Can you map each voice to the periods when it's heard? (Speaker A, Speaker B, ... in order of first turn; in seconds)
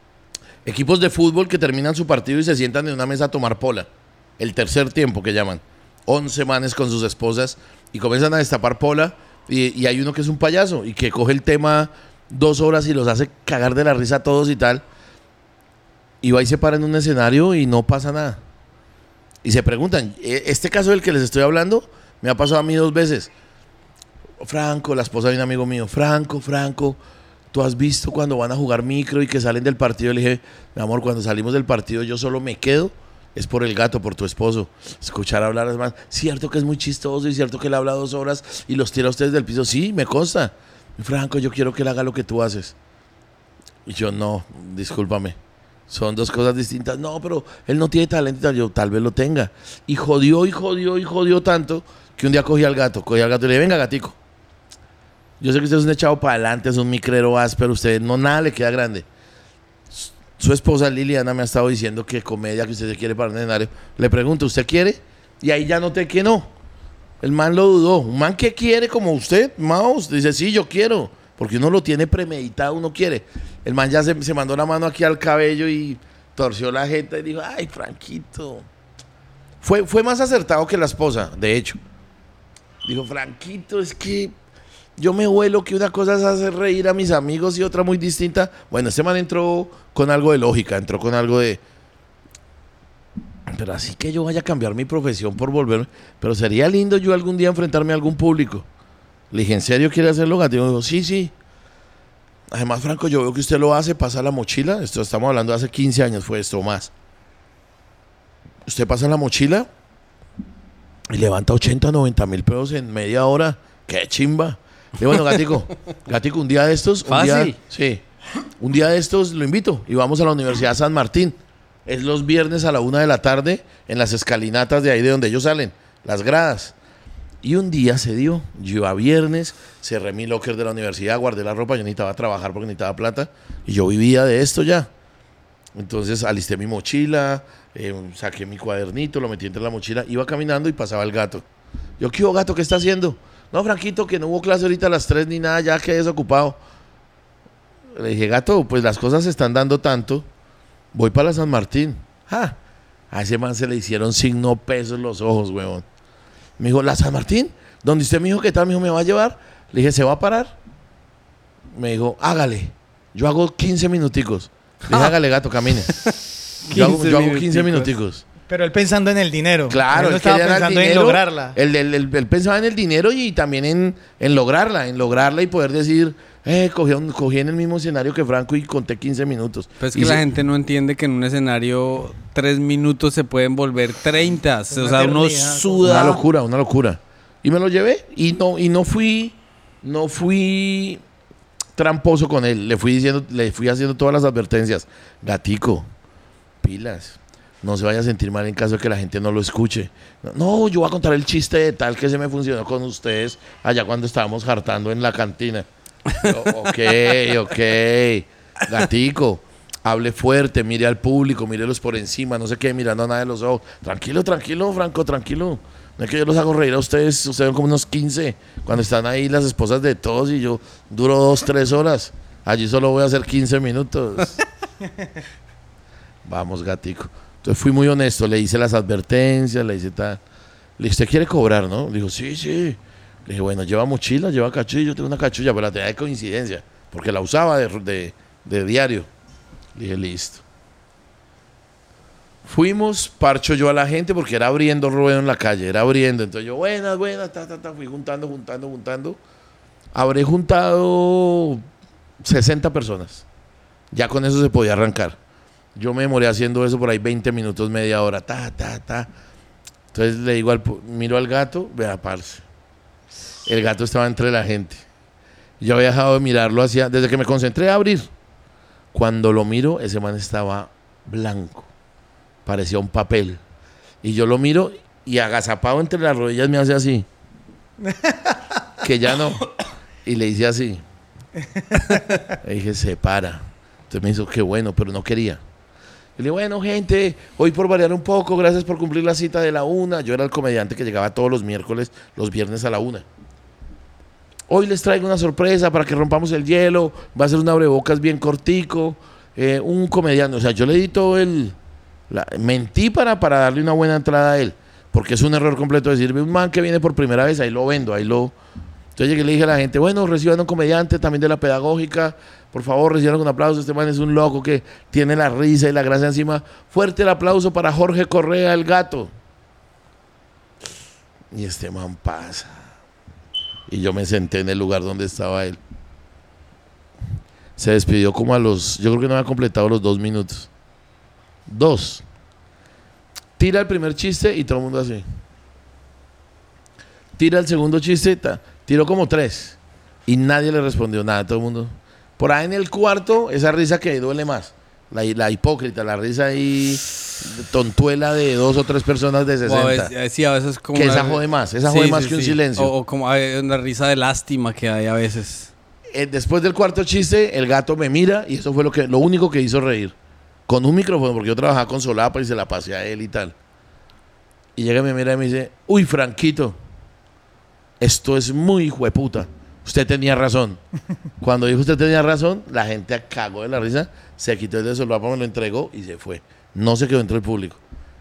Speaker A: 0.7-14.8, 16.2-18.4, 19.4-23.3, 24.4-27.0, 27.5-42.7, 43.9-45.4, 45.9-54.2, 55.4-59.1, 59.9-66.5, 67.2-78.7, 79.6-81.8, 82.8-84.3, 85.0-91.6, 93.5-98.7, 99.3-101.3, 102.5-106.9, 108.7-109.7, 111.1-118.0, 118.6-126.7, 127.4-134.9, 135.8-141.4, 142.0-146.6, 147.9-150.3, 150.9-152.6, 153.1-155.8, 156.6-160.6, 161.7-165.9, 166.7-168.2, 169.7-180.2, 185.8-191.0, 191.8-195.9, 196.6-224.4, 226.2-230.2, 230.8-239.1, 239.8-240.4, 242.4-249.2, 249.9-251.7, 252.2-253.2, 253.9-255.2, 255.8-259.1, 259.9-262.4, 263.4-264.8, 265.6-268.1, 268.9-271.7, 272.5-273.4, 274.0-277.1, 278.8-279.4, 280.0-280.8, 282.3-285.4, 286.2-293.1, 294.5-301.6, 302.1-308.4, 309.0-319.1, 321.3-322.6, 323.7-325.6, 327.6-330.5, 331.5-332.0, 333.4-335.0, 337.2-349.9, 350.7-352.7, 355.9-359.9, 360.5-363.4, 364.6-366.6, 367.8-370.6, 371.2-377.6
Speaker B: 117.1-117.6, 166.6-167.9, 179.8-186.1, 349.4-355.5
Speaker C: 168.5-171.6, 184.7-186.2, 277.9-278.4, 281.6-282.3